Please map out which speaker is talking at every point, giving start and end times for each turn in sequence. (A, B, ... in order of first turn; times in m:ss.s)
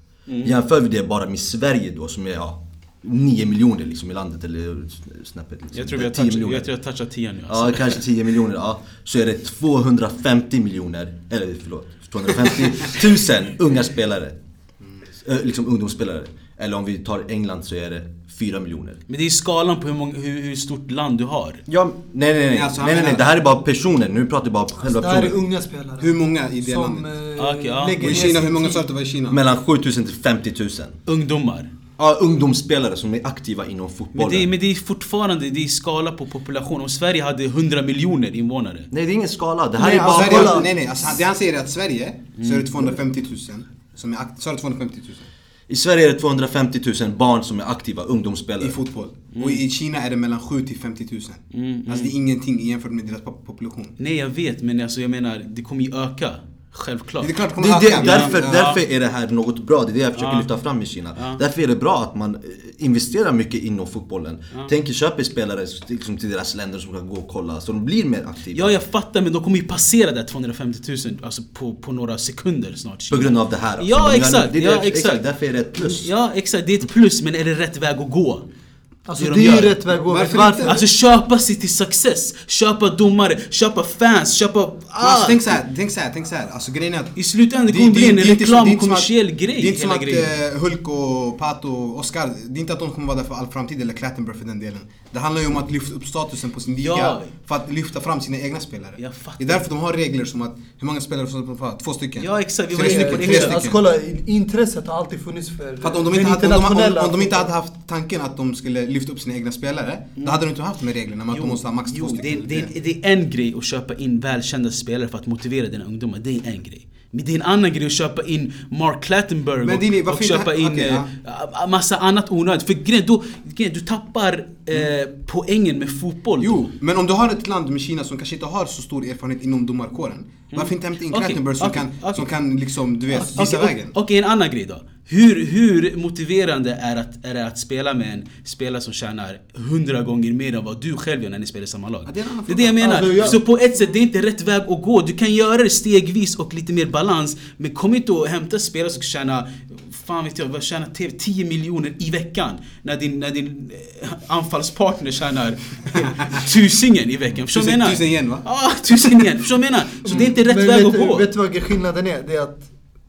0:00.3-0:00.6 A
0:00.4-0:06.7 B
0:05.8-0:08.0 A
0:07.5-0:14.4 B
0:15.2-0:19.0 B
0:19.1-0:21.6 A
0:21.7-0:25.4 B
0:22.5-0:23.3 C
0:24.9-0:28.8 D
0:26.0-0:27.1 C
0:27.4-0:28.3 A
0:28.0-0:29.4 C
0:29.3-0:31.0 B
0:31.1-0:31.7 A
0:32.0-0:34.5 B
0:34.1-0:38.9 A
0:38.9-0:40.8 B
0:39.8-0:40.7 D
0:40.1-0:45.3 C
0:42.4-0:42.8 A
0:45.7-0:48.8 B
0:48.6-0:54.0 C
0:49.4-0:49.6 A
0:51.5-0:52.1 A
0:54.0-0:58.8 A
0:57.2-0:58.5 C
0:57.6-1:08.8 B
1:00.2-1:00.5 A
1:01.2-1:01.4 A
1:08.5-1:15.2 A
1:13.1-1:16.1 B
1:15.8-1:18.5 A
1:19.1-1:20.8 D
1:19.2-1:19.8 A
1:19.9-1:20.8 C
1:20.7-1:25.6 A
1:25.0-1:27.2 C
1:27.2-1:30.3 A
1:27.7-1:43.8 C
1:36.8-1:37.3 A
1:39.0-1:39.6 A
1:42.2-1:43.7 A
1:42.8-1:47.5 D
1:45.8-1:52.7 C
1:51.3-2:06.7 A
1:59.6-2:01.1 C
2:06.4-2:13.9 C
2:10.5-2:12.3 A
2:13.1-2:13.4 D
2:13.4-2:41.3 A
2:22.1-2:23.4 C
2:22.8-2:23.4 D
2:37.5-2:39.3 C
2:40.0-2:42.7 D